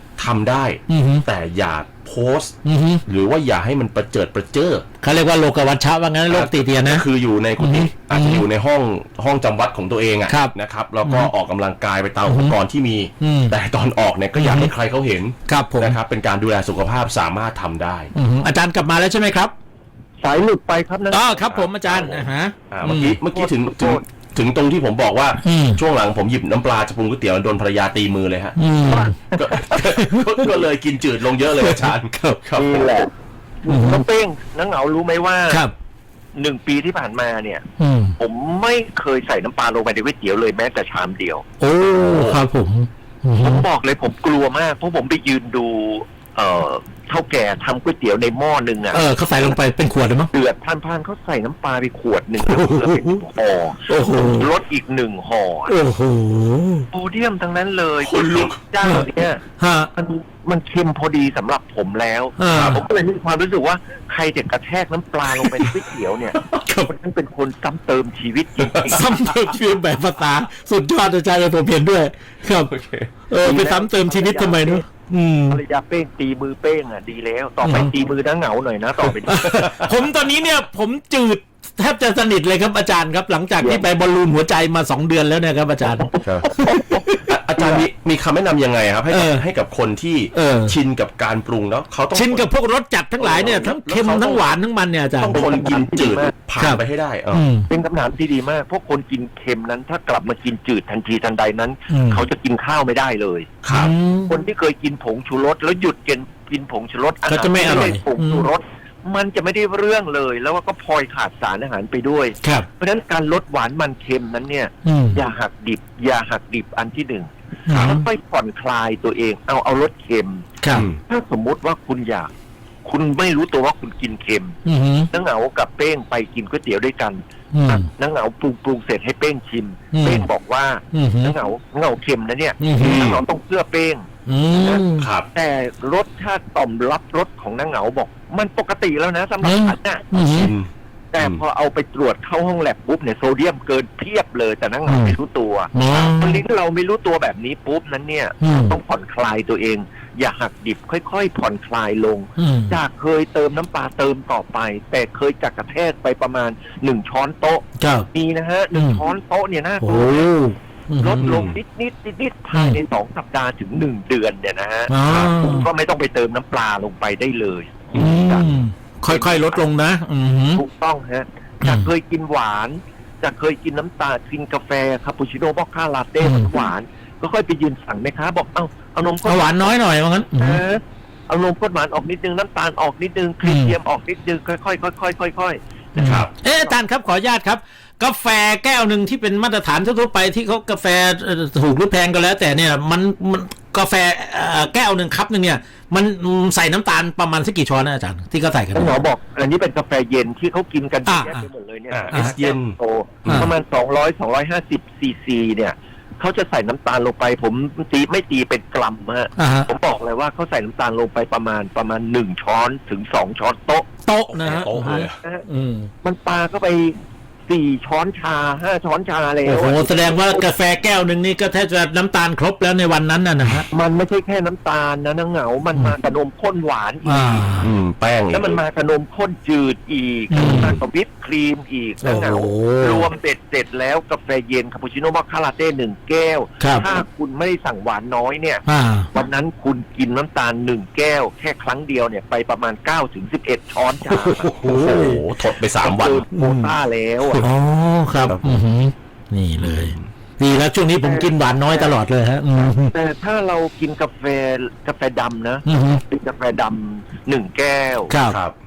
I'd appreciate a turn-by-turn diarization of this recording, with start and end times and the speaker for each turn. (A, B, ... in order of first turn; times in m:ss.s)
0:00.2-0:02.5 A
0:00.9-0:01.2 B
0:02.6-0:03.0 B
0:03.1-0:04.8 A
0:05.0-0:07.0 B
0:06.3-0:18.1 A
0:07.6-0:08.4 B
0:10.3-0:11.3 B
0:12.2-0:12.6 B
0:13.2-0:13.6 B
0:14.3-0:14.7 B
0:15.4-0:16.0 B
0:18.1-0:19.5 B
0:20.2-0:21.4 C
0:21.1-0:23.2 B
0:21.5-0:33.0 A
0:23.3-0:24.0 C
0:25.4-0:25.8 B
0:28.6-0:29.1 B
0:28.9-0:29.8 C
0:29.7-0:30.6 B
0:31.6-0:32.3 B
0:32.6-0:33.1 C
0:33.6-0:35.6 C
0:33.7-0:34.0 B
0:36.3-0:37.6 C
0:37.8-0:38.2 B
0:38.2-0:41.4 C
0:41.6-0:43.6 B
0:42.0-0:42.4 A
0:43.4-0:49.0 C
0:48.9-0:50.3 B
0:50.3-0:55.7 C
0:52.4-0:53.2 B
0:53.9-0:54.5 B
0:55.7-0:56.9 B
0:56.9-1:09.0 C
0:58.0-0:58.6 A
0:59.6-0:59.9 B
1:02.4-1:02.8 B
1:02.5-1:02.8 A
1:06.4-1:06.9 B
1:08.6-1:09.0 A
1:08.9-1:12.7 B
1:12.7-1:13.1 A
1:13.3-1:15.6 B
1:13.4-1:14.8 C
1:15.5-1:19.8 C
1:17.6-1:17.9 B
1:19.0-1:20.0 A
1:19.2-1:27.3 B
1:26.2-1:26.5 A
1:26.6-1:27.0 C
1:27.2-1:32.5 A
1:29.1-1:29.4 B
1:30.3-1:30.8 B
1:32.1-1:35.4 B
1:33.2-1:34.6 A
1:35.2-1:37.4 A
1:35.3-1:36.3 C
1:37.3-1:37.7 B
1:37.7-1:43.5 C
1:41.9-1:42.2 B
1:43.6-1:43.9 A
1:43.7-1:44.4 B
1:44.3-2:02.3 C
1:47.2-1:48.5 B
1:54.8-1:55.2 B
1:57.7-1:58.0 B
1:57.7-1:58.0 A
2:00.6-2:00.9 B
2:02.8-2:04.6 C
2:04.6-2:05.1 B
2:05.1-2:14.1 C
2:07.5-2:07.9 B
2:09.9-2:10.3 B
2:10.9-2:11.3 B
2:12.6-2:13.1 B
2:12.8-2:13.2 A
2:14.3-2:15.1 B
2:14.6-2:20.1 C
2:15.0-2:15.3 A
2:19.4-2:20.5 B
2:20.2-2:21.4 A
2:21.1-2:40.3 C
2:24.8-2:25.1 B
2:25.7-2:26.4 B
2:28.4-2:28.8 B
2:32.4-2:32.8 B
2:37.8-2:38.1 B
2:38.7-2:39.0 B
2:39.8-2:41.4 B
2:41.0-2:48.5 C
2:41.2-2:41.6 A
2:42.5-2:42.8 B
2:44.9-2:45.7 B
2:45.0-2:45.3 A
2:47.9-2:50.6 B
2:49.1-2:49.6 C
2:50.5-2:59.7 C
2:51.6-2:51.9 B
2:56.2-2:56.5 B
2:59.2-3:00.6 B
3:00.4-3:06.7 C
3:03.4-3:03.8 B
3:05.9-3:19.0 B
3:06.0-3:06.3 A
3:18.7-3:33.9 C
3:21.0-3:21.4 B
3:21.9-3:23.5 A
3:29.4-3:29.7 B
3:34.0-3:35.9 B
3:34.3-3:35.2 A
3:34.9-3:35.4 C
3:36.0-3:40.4 C
3:39.4-3:43.7 B
3:43.7-3:47.5 C
3:47.0-3:47.7 B
3:47.6-3:48.6 A
3:48.3-4:04.5 C
3:50.3-3:50.8 B
3:52.0-3:53.1 B
3:56.6-3:56.8 B
3:58.6-3:59.1 B
4:04.1-4:05.2 B
4:04.6-4:06.2 A
4:05.8-4:07.4 C
4:06.3-4:06.7 B
4:07.4-4:12.9 B
4:08.2-4:08.6 A
4:09.6-4:10.0 A
4:11.0-4:12.0 C
4:12.9-4:18.1 C
4:15.6-4:16.0 B
4:18.1-4:18.4 B
4:18.3-4:18.5 A